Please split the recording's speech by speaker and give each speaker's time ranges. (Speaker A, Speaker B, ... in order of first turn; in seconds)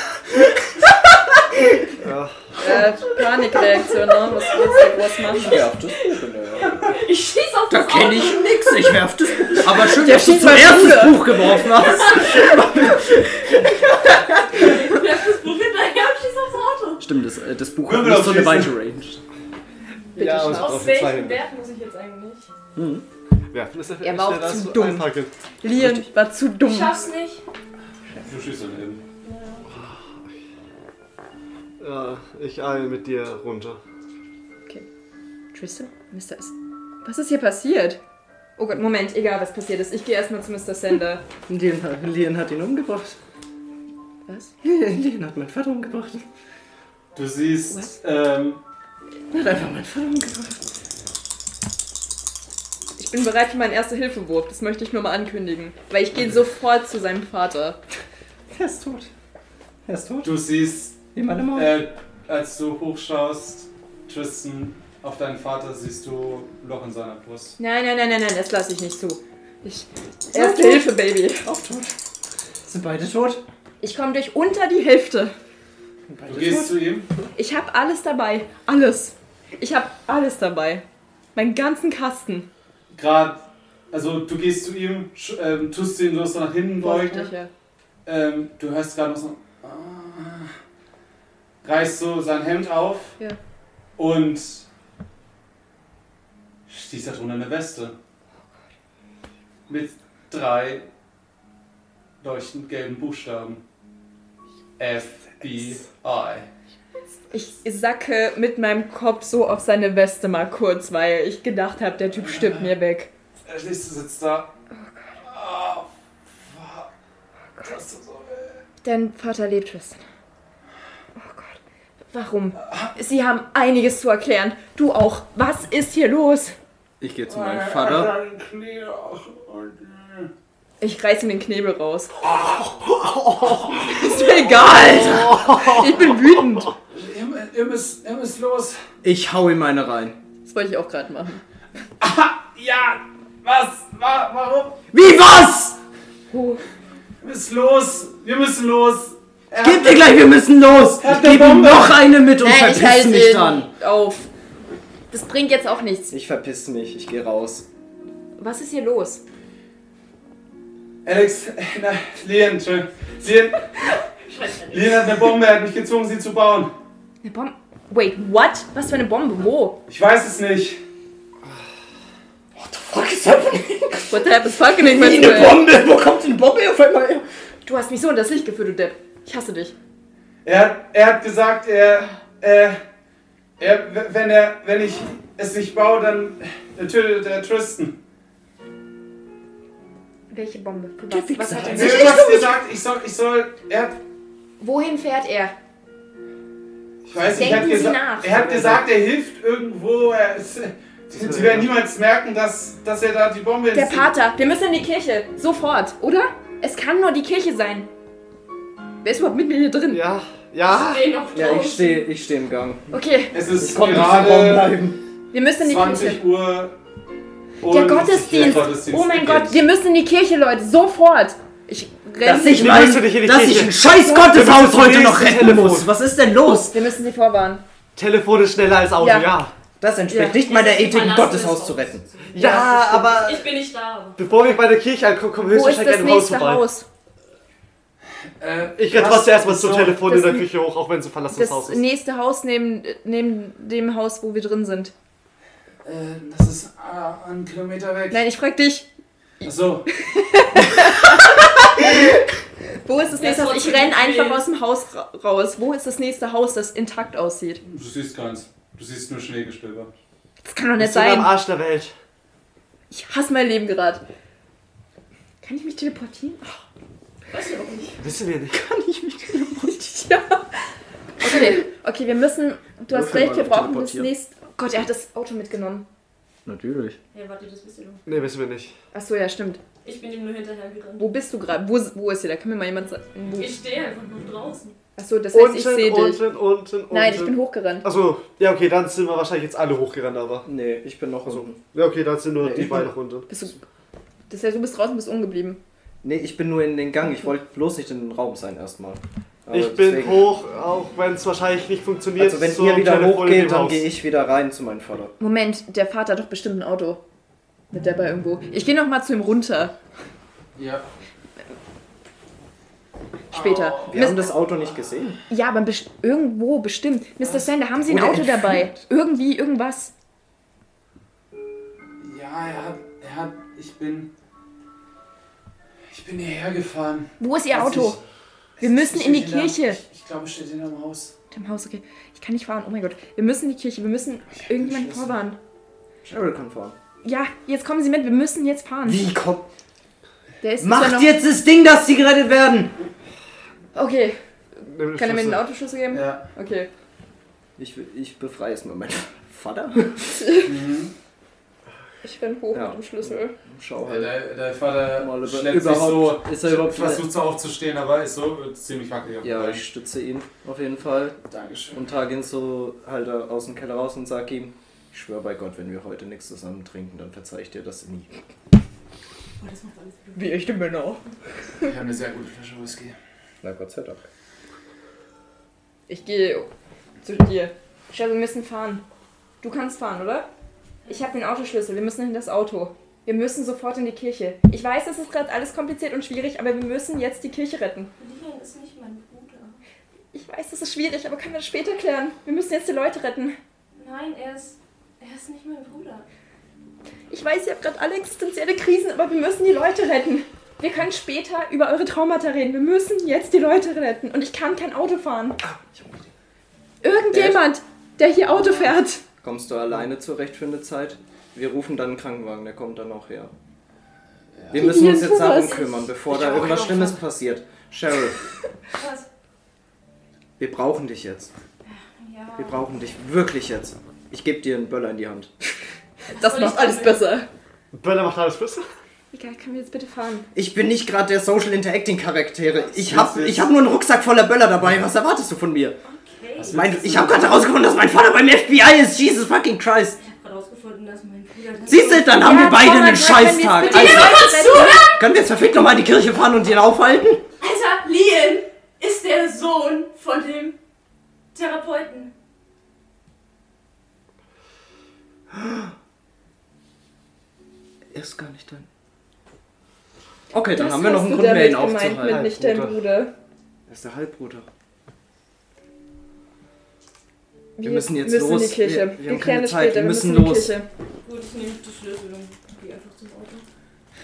Speaker A: 2.0-2.4, 20.2-21.4, 23.5-25.3, 29.7-30.3, 31.8-33.8, 133.0-133.5, 135.4-135.8, 197.1-197.5, 198.4-198.8, 201.1-201.7, 209.9-211.1, 222.5-225.9, 227.9-229.5, 232.3-233.5, 234.2-236.7, 238.8-241.8, 260.8-261.9, 268.0-268.6, 278.1-278.7, 285.3-290.5, 291.2-293.3, 299.5-303.9, 344.7-345.4, 427.7-428.7, 462.0-462.8
Speaker B: 2.6-5.6, 9.9-11.5, 20.1-20.9, 24.0-25.1, 25.6-27.1, 35.5-38.0, 38.6-41.2, 44.3-44.5, 53.0-57.8, 67.6-71.5, 73.8-75.3, 77.3-80.8, 81.3-82.5, 86.8-87.5, 107.3-113.1, 114.8-115.1, 118.8-120.0, 121.2-126.5, 130.8-132.2, 133.7-136.7, 140.4-141.4, 146.3-146.6, 152.4-154.3, 155.1-156.1, 158.4-159.2, 167.2-169.8, 174.1-175.6, 177.6-179.7, 190.3-192.5, 194.6-195.5, 197.3-198.4, 203.7-207.9, 209.0-210.0, 212.9-213.4, 215.3-216.2, 217.6-222.9, 226.4-227.6, 229.0-229.3, 230.1-230.4, 232.3-233.2, 235.5-236.8, 240.0-240.5, 241.3-244.9, 248.1-248.9, 249.9-252.3, 252.8-257.6, 260.4-261.3, 262.9-264.0, 265.4-266.6, 269.3-270.6, 271.2-275.9, 278.9-279.6, 281.0-283.5, 285.0-286.2, 286.9-287.9, 293.3-293.6, 294.3-295.6, 305.2-307.0, 307.7-309.7, 313.3-314.3, 315.3-319.9, 327.2-328.0, 328.6-329.8, 331.3-335.4, 337.0-339.0, 340.4-341.1, 343.7-346.7, 350.2-350.5, 352.0-353.4, 370.1-371.0, 375.9-376.5, 377.0-378.8, 379.4-380.3, 380.9-387.9, 390.1-393.4, 397.1-405.4, 406.8-409.0, 414.5-415.7, 426.1-427.3, 429.1-430.3, 442.1-444.9, 460.3-463.1, 467.6-470.7
Speaker C: 4.4-4.8, 6.6-9.0, 11.4-17.0, 20.3-22.5, 26.6-27.4, 29.2-29.7, 164.2-165.1, 210.6-212.1, 230.4-234.2, 253.2-254.4, 267.3-268.0, 277.1-278.0, 279.8-281.1, 283.4-284.8, 369.4-370.2, 388.0-389.6, 393.7-396.1, 415.2-417.0, 418.7-419.1, 421.6-422.6, 426.1-427.0, 435.8-436.6, 440.0-442.1, 443.6-445.0, 447.4-450.6, 451.3-452.1, 471.0-473.4
Speaker D: 5.3-6.8, 7.7-13.2, 17.0-19.2, 20.2-21.1, 22.8-23.0, 41.5-43.2, 44.6-46.2, 49.3-50.6, 58.5-59.1, 59.9-60.3, 61.1-61.8, 70.3-72.0, 72.6-73.4, 76.1-76.8, 127.0-128.1, 134.6-135.6, 139.0-140.2, 144.9-145.8, 149.6-153.7, 156.1-157.7, 172.5-177.2, 191.1-192.5, 211.3-212.9, 213.5-215.0, 222.2-226.8, 229.8-232.1, 268.5-269.8, 271.3-271.5, 272.9-274.1, 276.4-277.0, 290.4-291.6, 292.4-292.9, 296.0-300.3, 302.2-305.1, 313.9-315.2, 317.8-318.7, 336.0-336.8, 338.8-339.4, 340.6-342.7, 347.6-350.4, 352.5-354.2, 354.9-357.1, 359.2-361.2, 361.7-368.1, 373.4-374.1, 407.1-407.4, 408.3-413.3, 414.5-418.2, 420.4-421.3, 422.4-425.3, 430.3-435.8, 436.5-440.0, 441.7-444.4, 444.9-447.2, 455.3-455.7, 457.9-458.7, 460.3-462.3, 463.7-464.5, 467.6-470.6
Speaker E: 17.8-18.8, 28.2-29.0, 47.1-48.6, 60.2-61.0, 61.5-67.6, 76.2-77.1, 82.9-87.3, 88.0-90.5, 91.6-93.2, 94.0-94.7, 96.7-98.0, 99.7-100.9, 102.2-103.6, 104.8-106.5, 112.1-112.7, 113.5-114.5, 115.2-116.9, 117.6-118.6, 122.6-122.9, 127.3-130.3, 132.2-134.0, 136.9-138.8, 142.0-144.8, 147.2-150.2, 150.9-152.1, 161.0-163.7, 164.7-166.7, 169.9-170.8, 180.4-182.8, 183.6-188.0, 191.6-194.0, 197.1-204.1, 213.3-214.8, 215.6-216.8, 217.6-219.6, 238.4-240.1, 245.8-248.2, 249.4-249.9, 257.6-259.9, 310.6-310.9, 313.3-314.0, 317.2-317.5, 322.0-324.1, 325.9-328.0, 328.6-331.1, 334.3-335.2, 345.9-346.3, 350.4-350.9, 353.8-359.6, 361.3-361.8, 371.6-372.9, 414.3-414.8, 432.6-433.5, 436.4-437.3